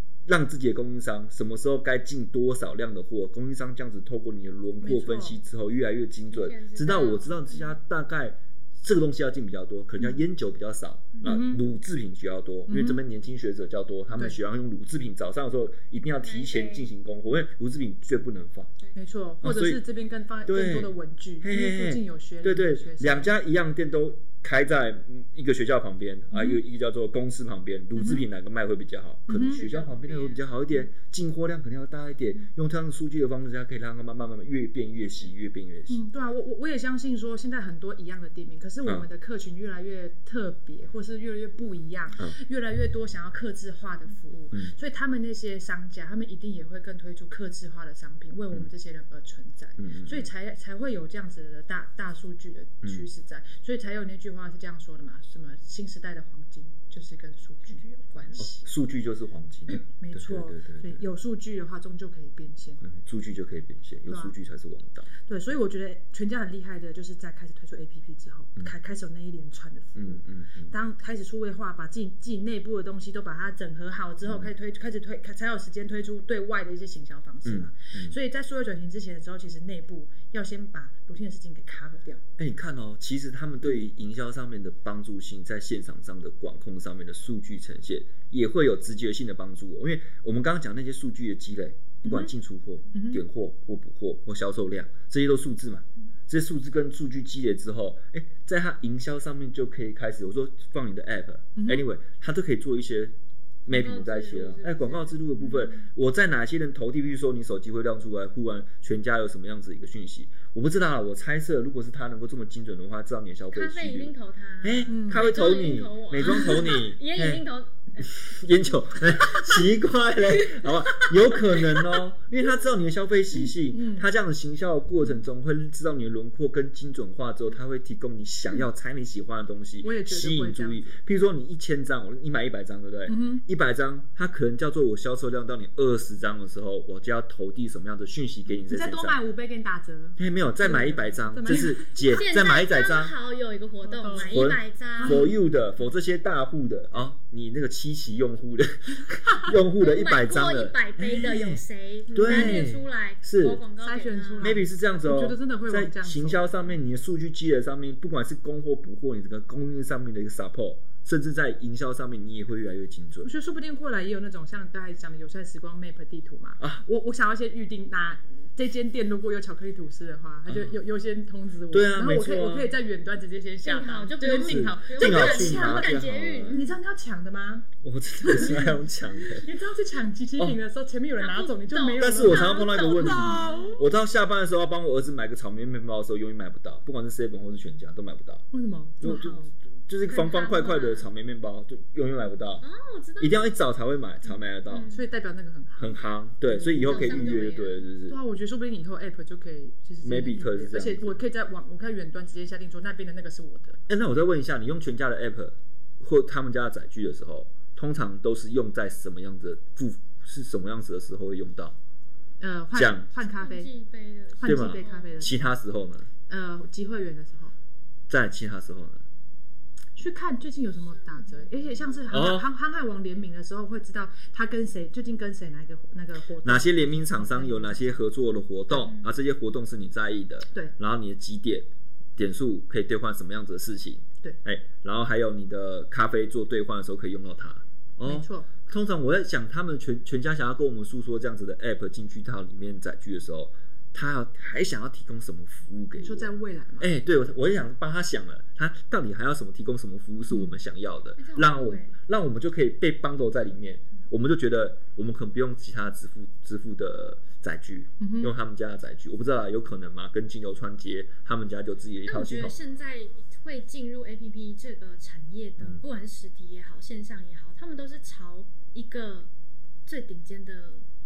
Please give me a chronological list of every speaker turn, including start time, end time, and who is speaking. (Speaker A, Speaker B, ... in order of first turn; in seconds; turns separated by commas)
Speaker A: 0.3-18.7, Speaker B: 4.8-5.4, Speaker C: 6.3-7.7, Speaker B: 11.2-11.6, Speaker B: 12.7-13.0, Speaker C: 16.2-16.9, Speaker B: 18.9-23.3, Speaker A: 19.4-19.8, Speaker A: 20.5-36.0, Speaker B: 26.3-26.6, Speaker B: 28.0-28.3, Speaker B: 29.3-29.6, Speaker C: 29.3-30.5, Speaker B: 35.9-58.7, Speaker A: 49.8-50.3, Speaker C: 57.7-58.5, Speaker A: 58.4-61.0, Speaker B: 59.7-62.8, Speaker A: 62.8-65.1, Speaker B: 64.1-64.3, Speaker B: 65.2-82.2, Speaker A: 70.0-70.7, Speaker A: 74.2-74.5, Speaker A: 77.5-78.2, Speaker A: 82.4-103.1, Speaker B: 92.0-92.3, Speaker B: 92.9-93.2, Speaker B: 101.6-101.9, Speaker A: 103.7-117.4, Speaker C: 103.7-105.7, Speaker C: 113.5-118.1, Speaker B: 114.9-115.3, Speaker B: 116.2-116.5, Speaker A: 118.0-139.2, Speaker C: 120.5-121.3, Speaker B: 123.7-124.1, Speaker B: 129.8-130.9, Speaker B: 133.1-133.4, Speaker B: 138.7-142.2, Speaker A: 140.2-143.1, Speaker C: 141.5-145.3, Speaker B: 143.8-145.3, Speaker A: 144.1-151.6, Speaker C: 149.8-154.6, Speaker A: 152.1-153.6, Speaker B: 152.2-152.7, Speaker B: 153.8-156.7, Speaker A: 154.4-163.3, Speaker B: 163.2-177.7, Speaker A: 170.5-170.8, Speaker A: 171.7-172.7, Speaker C: 173.6-176.7, Speaker A: 174.4-176.6, Speaker A: 177.8-179.5, Speaker B: 178.2-183.8, Speaker C: 181.2-183.8, Speaker A: 182.0-188.4, Speaker B: 188.5-189.2, Speaker A: 189.0-192.6, Speaker C: 189.0-189.5, Speaker C: 190.1-191.1, Speaker C: 192.6-193.4, Speaker A: 193.2-194.9, Speaker C: 194.7-195.1, Speaker B: 194.9-195.9, Speaker A: 195.8-198.2, Speaker B: 196.5-197.5, Speaker C: 196.8-197.8, Speaker B: 198.1-203.8, Speaker A: 200.0-201.2, Speaker A: 203.9-211.8, Speaker B: 212.4-213.7, Speaker A: 212.7-213.1, Speaker C: 213.2-215.3, Speaker B: 214.4-215.4, Speaker A: 214.4-216.1, Speaker B: 216.3-217.5, Speaker A: 218.1-219.0, Speaker B: 220.0-228.0, Speaker C: 220.8-222.2, Speaker A: 222.1-222.5, Speaker A: 226.4-231.7, Speaker C: 228.7-229.2, Speaker A: 232.2-262.6, Speaker B: 238.0-238.5, Speaker B: 246.0-246.9, Speaker B: 250.3-250.6, Speaker C: 251.2-252.0, Speaker B: 258.0-258.3, Speaker C: 262.1-269.3, Speaker C: 269.9-270.9